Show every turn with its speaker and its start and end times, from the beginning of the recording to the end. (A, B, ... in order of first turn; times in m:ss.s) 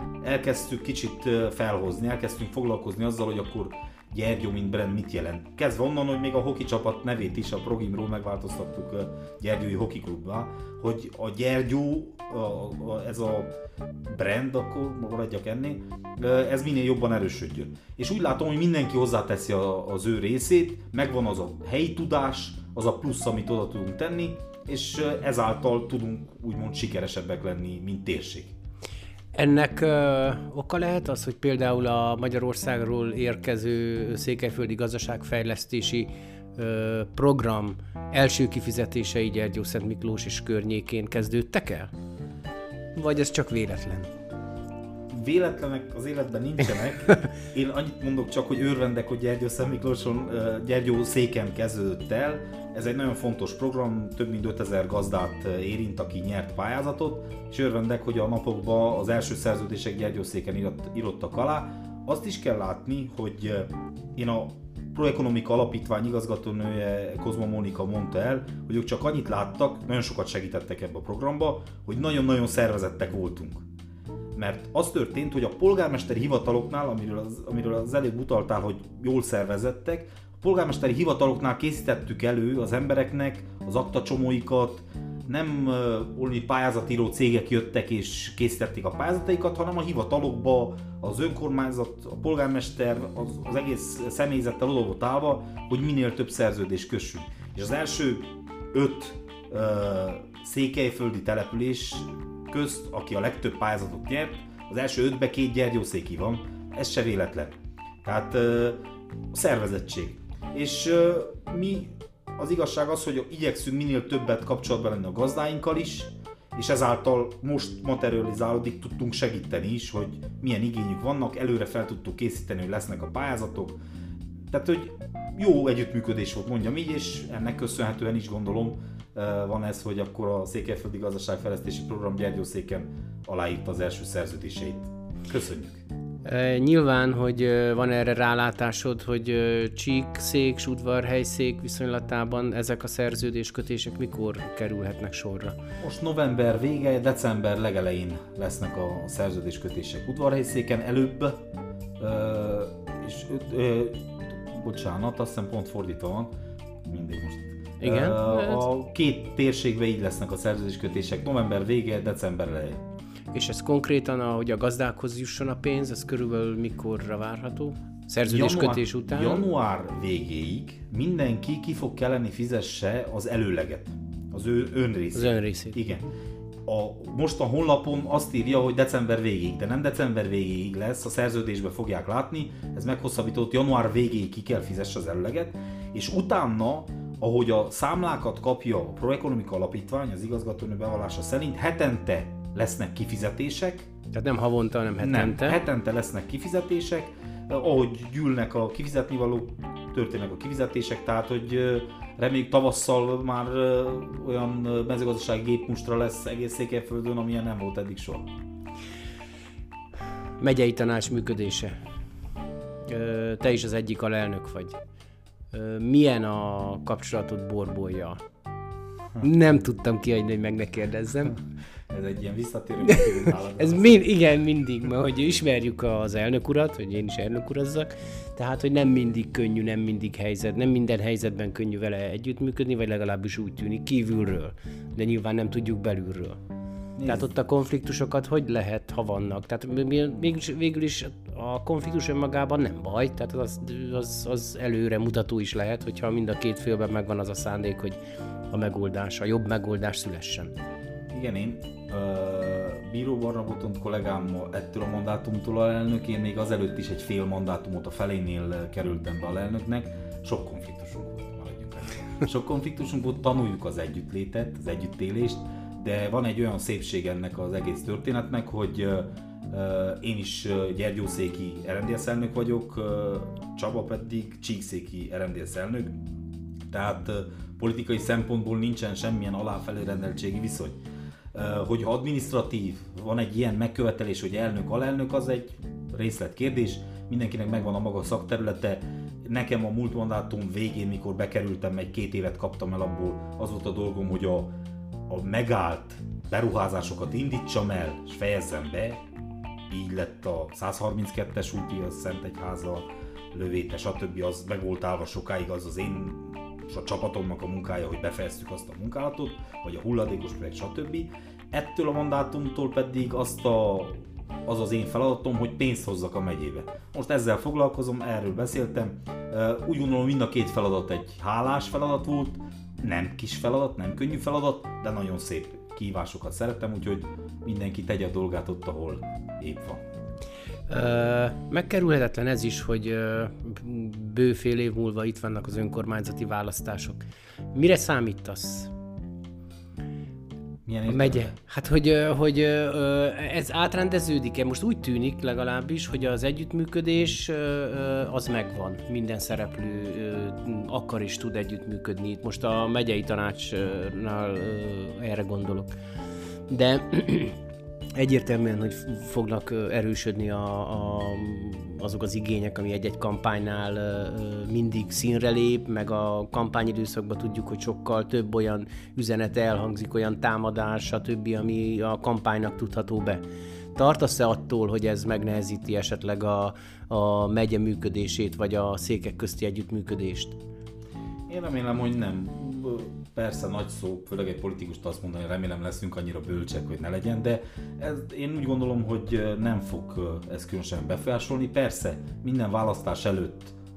0:00.2-0:13.5 A
0:14.1-0:28.5 A
0:29.3-0:41.9 B
0:42.9-0:44.1 B
0:45.1-1:13.6 A
1:14.3-1:48.8 A
1:49.3-2:03.8 A
2:04.5-2:15.8 A
2:16.2-2:25.6 B
2:25.8-2:31.4 A
2:32.0-2:36.3 A
2:36.8-2:42.8 A
2:37.8-2:38.7 B
2:43.3-2:49.4 B
2:48.2-2:56.0 A
2:55.1-2:55.8 B
2:56.6-3:13.9 A
3:14.1-3:15.6 B
3:15.0-3:28.3 A
3:30.4-3:31.8 B
3:32.9-3:34.8 B
3:35.5-3:38.2 B
3:39.2-3:41.4 B
3:41.9-3:44.0 A
3:42.9-3:56.4 B
3:57.0-3:57.3 A
3:57.0-4:08.0 B
4:08.5-4:10.5 B
4:11.1-4:35.9 A
4:36.7-4:40.8 A
4:41.3-4:54.5 A
4:55.1-4:59.0 A
4:59.7-5:29.8 A
5:30.7-5:37.0 B
5:37.5-5:38.7 B
5:40.6-5:41.4 A
5:40.9-5:55.7 B
5:56.5-5:57.4 B
5:57.9-6:13.2 B
6:13.7-6:20.4 B
6:21.3-6:33.5 A